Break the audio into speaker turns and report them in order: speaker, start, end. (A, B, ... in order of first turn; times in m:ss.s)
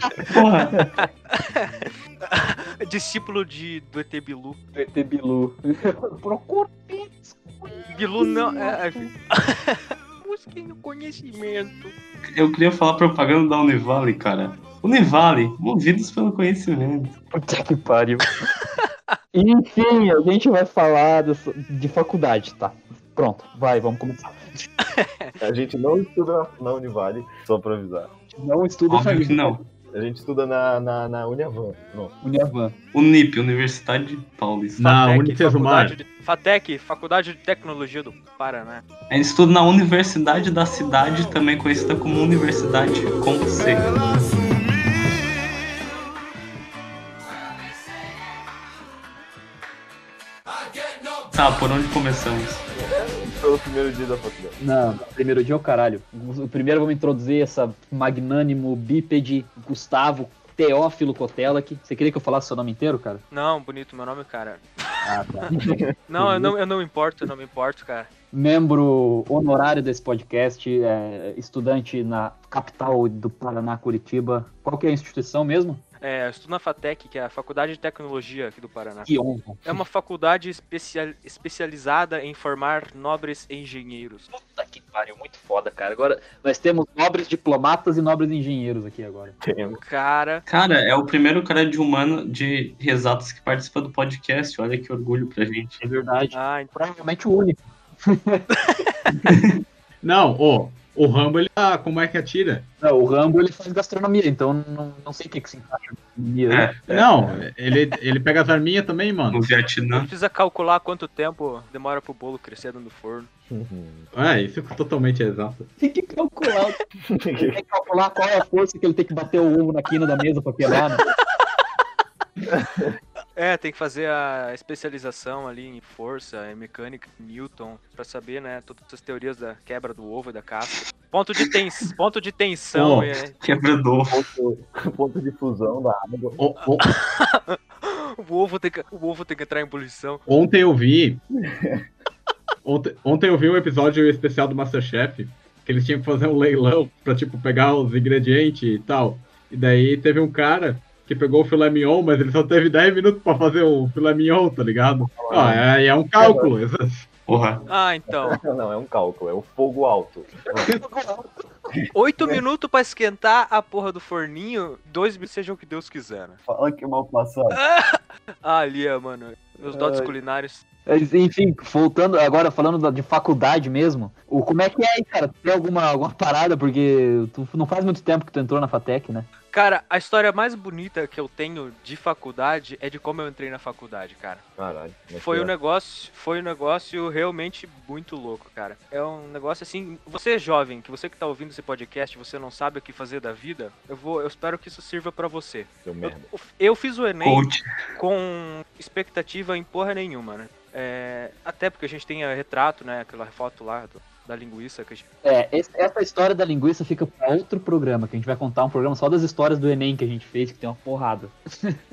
0:00.3-0:00.8 A
0:01.4-0:04.6 B
0:04.7-0:09.1 C
0:07.9-0:11.9 B
0:12.3-0:17.2 A
0:17.3-0:18.3 C
0:19.3-0:24.4 C
0:25.0-0:25.3 B
0:25.4-0:28.1 D
0:28.3-0:29.6 C
0:28.9-0:29.6 A
0:29.9-0:32.2 D
0:32.2-0:32.8 C
0:32.9-0:34.8 A
0:34.8-0:36.0 E
0:34.8-0:38.8 B
0:39.1-0:44.2 A
0:51.3-0:52.6 A
0:52.7-0:54.6 D
0:54.6-1:03.2 C
1:03.3-1:05.4 B
1:05.0-1:05.8 C
1:05.5-1:06.5 D
1:06.1-1:08.1 B
1:08.3-1:15.8 C
1:16.0-1:19.1 B
1:19.1-1:19.6 C
1:19.6-1:24.3 B
1:24.3-1:29.4 C
1:29.4-1:29.8 D
1:29.8-1:30.4 B
1:30.5-1:35.8 A
1:35.8-1:38.4 C
1:36.3-1:36.7 B
1:39.3-1:39.6 A
1:40.0-1:42.7 E
1:42.8-1:47.1 C
1:46.5-1:46.8 A
1:46.9-1:49.4 E
1:49.3-1:50.1 A
1:49.9-1:53.3 B
1:53.5-1:54.1 D
1:54.1-1:55.7 E
1:55.8-1:56.8 C
1:57.1-1:57.6 D
1:57.4-2:01.0 C
2:02.5-2:03.0 D
2:03.4-2:13.4 B
2:12.7-2:13.1 E
2:13.4-2:14.3 A
2:14.1-2:16.4 D
2:16.4-2:17.0 E
2:16.6-2:20.2 B
2:20.3-2:21.2 E
2:21.4-2:21.8 D
2:22.6-2:37.1 E
2:35.1-2:36.5 D
2:37.3-2:37.7 A
2:37.7-2:38.4 B
2:38.1-2:40.7 D
2:40.5-2:41.5 C
2:41.8-2:42.4 D
2:41.9-2:46.4 B
2:46.5-2:47.6 D
2:47.5-2:50.6 B
2:49.6-2:50.2 D
2:50.9-2:59.3 C
2:59.5-3:04.4 B
3:04.6-3:05.5 D
3:05.2-3:25.0 B
3:15.8-3:16.3 D
3:17.2-3:17.7 A
3:25.2-3:31.8 C